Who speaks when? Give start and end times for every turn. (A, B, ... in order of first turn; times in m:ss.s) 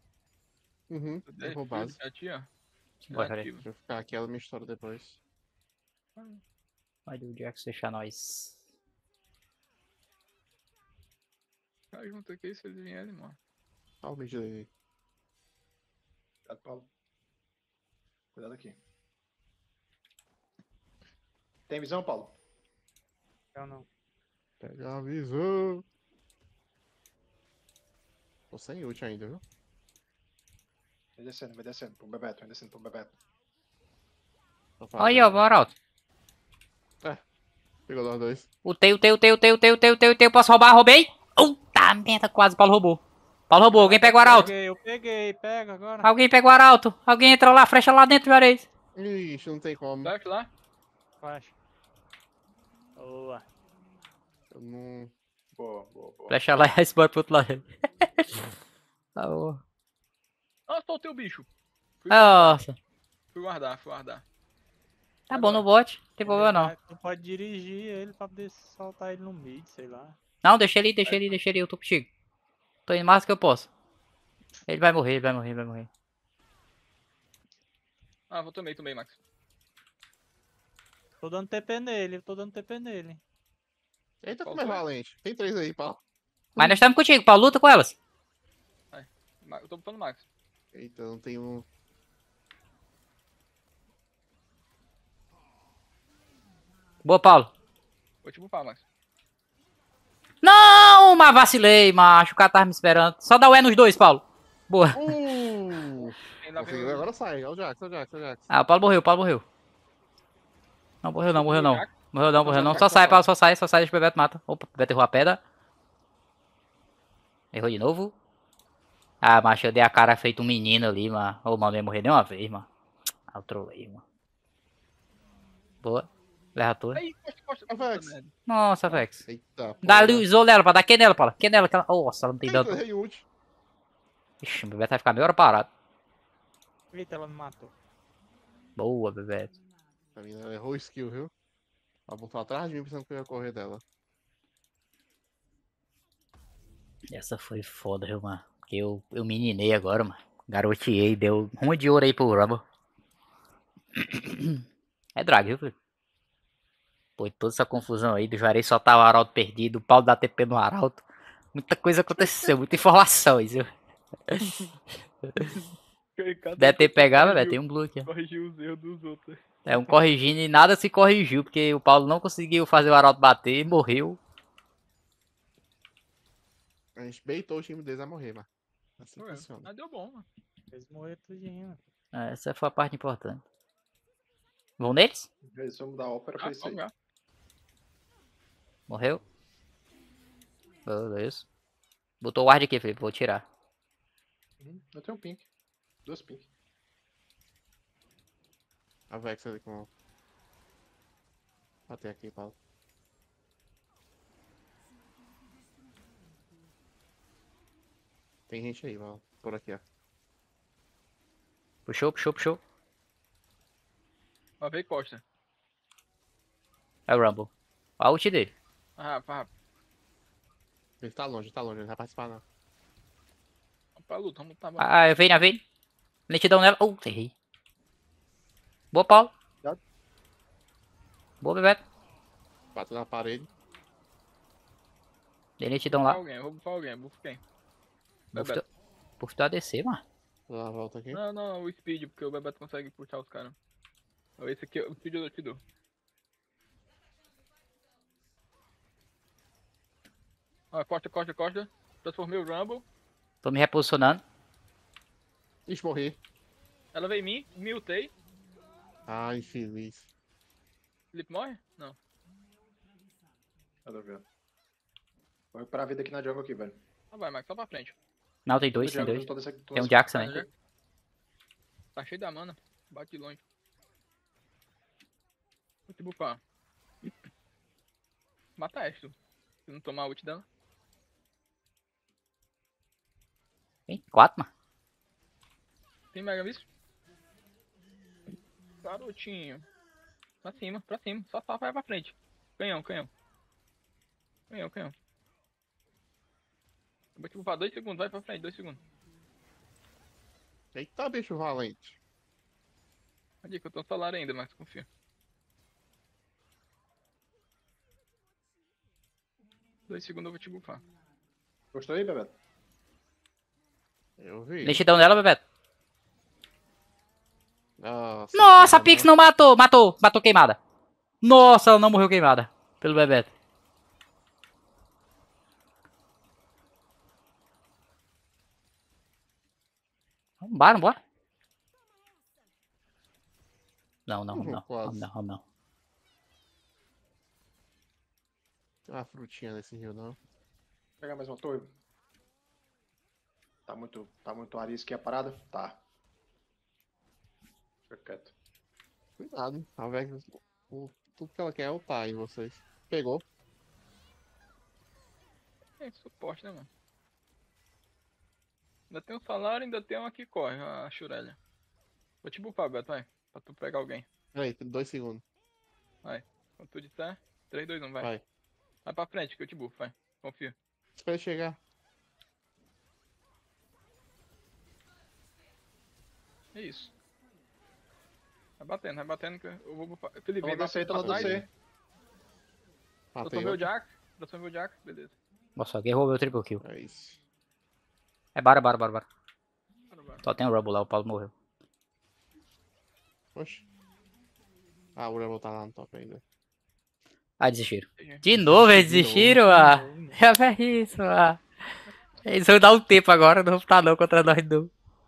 0:00.9-0:02.0 A
0:01.3-0:02.5 B
0:03.1-0:03.5 C
0:03.1-0:03.6 B
0:03.6-0:05.2 A
0:06.2-0:06.4 B
0:07.1-0:08.6 C
0:11.9-0:13.4 B
0:14.0-0:14.7 A
0:16.4-0:16.9 D
0:18.3-0:18.8 D
0:21.7-0:22.4 D
0:23.5-0:23.9 E
0:24.6-0:25.8 A
0:28.5-0:29.4 A
0:31.2-0:33.2 D
0:34.8-0:35.4 A
0:35.0-0:35.7 C
0:37.9-0:38.5 A
0:38.6-0:44.5 C
0:43.7-0:46.1 E
0:46.0-0:48.7 C
0:48.9-0:50.1 A
0:50.0-0:50.5 B
0:51.2-0:51.6 E
0:53.0-0:53.4 E
0:54.5-0:55.1 A
0:55.5-0:56.4 D
0:56.3-0:58.5 C
0:59.2-0:59.6 C
1:00.7-1:01.5 B
1:02.0-1:02.6 B
1:02.1-1:02.8 C
1:03.3-1:04.2 B
1:05.3-1:06.7 C
1:05.3-1:05.6 B
1:06.2-1:10.2 E
1:10.4-1:12.1 C
1:11.1-1:11.3 B
1:12.9-1:13.7 C
1:14.7-1:15.9 C
1:18.3-1:19.2 B
1:21.2-1:23.2 E
1:24.2-1:26.0 A
1:24.3-1:24.8 B
1:26.5-1:26.8 A
1:26.6-1:27.9 C
1:28.9-1:30.2 B
1:30.7-1:31.6 A
1:37.0-1:37.5 C
1:38.2-1:38.8 B
1:40.4-1:45.1 C
1:44.9-1:48.5 A
1:45.9-1:47.1 B
1:48.5-1:49.4 C
1:51.0-1:55.4 C
1:51.3-1:53.2 B
1:57.5-1:58.1 C
1:59.2-2:02.7 C
2:03.3-2:04.0 C
2:05.8-2:07.0 C
2:06.9-2:08.3 B
2:07.7-2:08.2 A
2:08.5-2:09.2 C
2:09.2-2:10.2 A
2:09.8-2:12.8 C
2:12.4-2:13.2 A
2:14.4-2:15.7 C
2:16.9-2:17.7 E
2:18.8-2:19.6 C
2:20.1-2:21.3 A
2:22.1-2:23.8 A
2:27.1-2:32.6 C
2:33.9-2:34.6 C
2:35.2-2:35.7 C
2:37.2-2:43.7 C
2:44.3-2:44.6 C
2:45.2-2:45.5 C
2:45.4-2:50.0 B
2:46.6-2:48.1 C
2:49.6-2:54.2 C
2:57.0-2:58.5 A
2:59.0-2:59.7 A
2:59.2-3:00.2 B
3:00.7-3:01.8 E
3:02.1-3:03.4 C
3:04.8-3:05.3 C
3:05.4-3:06.8 D
3:06.4-3:06.9 B
3:08.9-3:09.2 C
3:10.8-3:11.4 C
3:12.2-3:13.4 C
3:14.6-3:15.5 D
3:16.0-3:16.5 D
3:19.1-3:19.9 A
3:21.9-3:22.5 A
3:28.5-3:29.8 A
3:31.8-3:32.6 C
3:34.6-3:35.2 B
3:37.1-3:38.5 C
3:39.0-3:39.5 B
3:41.0-3:42.4 A
3:44.0-3:44.9 B
3:44.8-3:45.6 C
3:46.3-3:47.3 C
3:48.9-3:49.3 C
3:51.4-3:51.8 C
3:52.7-3:53.5 A
3:55.6-3:56.2 C
3:55.9-3:57.4 B
3:58.3-3:58.6 C
3:58.3-3:58.6 B
3:59.2-4:00.0 C
4:00.5-4:01.2 A
4:01.1-4:03.6 B
4:04.4-4:05.6 B
4:10.7-4:12.8 B
4:13.4-4:14.2 C
4:15.6-4:16.2 A
4:16.9-4:18.1 B
4:19.1-4:20.1 A
4:21.1-4:22.0 B
4:23.8-4:24.2 D
4:25.5-4:26.8 D
4:27.1-4:28.0 B
4:28.4-4:30.4 C
4:28.8-4:30.4 D
4:30.1-4:30.5 B
4:32.0-4:33.4 B
4:35.9-4:36.4 B
4:38.6-4:39.1 B
4:39.6-4:40.4 B
4:43.9-4:44.5 C
4:46.1-4:46.6 B
4:48.8-4:49.6 B
4:50.4-4:53.1 B
4:54.5-4:54.9 B
4:57.2-4:58.8 B
5:00.7-5:02.0 A
5:03.4-5:04.9 B
5:09.9-5:10.8 B
5:11.7-5:12.3 D
5:14.2-5:14.8 A
5:14.6-5:15.4 C
5:17.8-5:19.1 A
5:18.3-5:20.6 C
5:21.2-5:23.3 C
5:30.4-5:31.0 C
5:34.1-5:35.4 C
5:34.3-5:35.0 A
5:38.8-5:40.2 A
5:41.0-5:41.7 D
5:43.6-5:45.8 D
5:47.9-5:48.3 D
5:49.2-5:53.2 A
5:55.8-5:56.7 B
5:58.9-6:01.4 B
6:02.2-6:04.0 B
6:04.3-6:05.2 A
6:06.0-6:08.1 B
6:08.8-6:10.6 B
6:10.9-6:11.6 A
6:16.5-6:16.9 B
6:18.6-6:21.5 B
6:20.4-6:21.5 D
6:20.9-6:21.4 A
6:23.1-6:23.7 A
6:23.2-6:25.1 B
6:25.6-6:26.6 C
6:26.6-6:27.2 A
6:28.3-6:29.0 C
6:29.9-6:30.2 B
6:30.2-6:31.3 C
6:33.3-6:33.6 A
6:35.0-6:36.2 A
6:37.4-6:41.4 C
6:38.5-6:39.4 A
6:39.2-6:40.2 E
6:42.2-6:44.7 C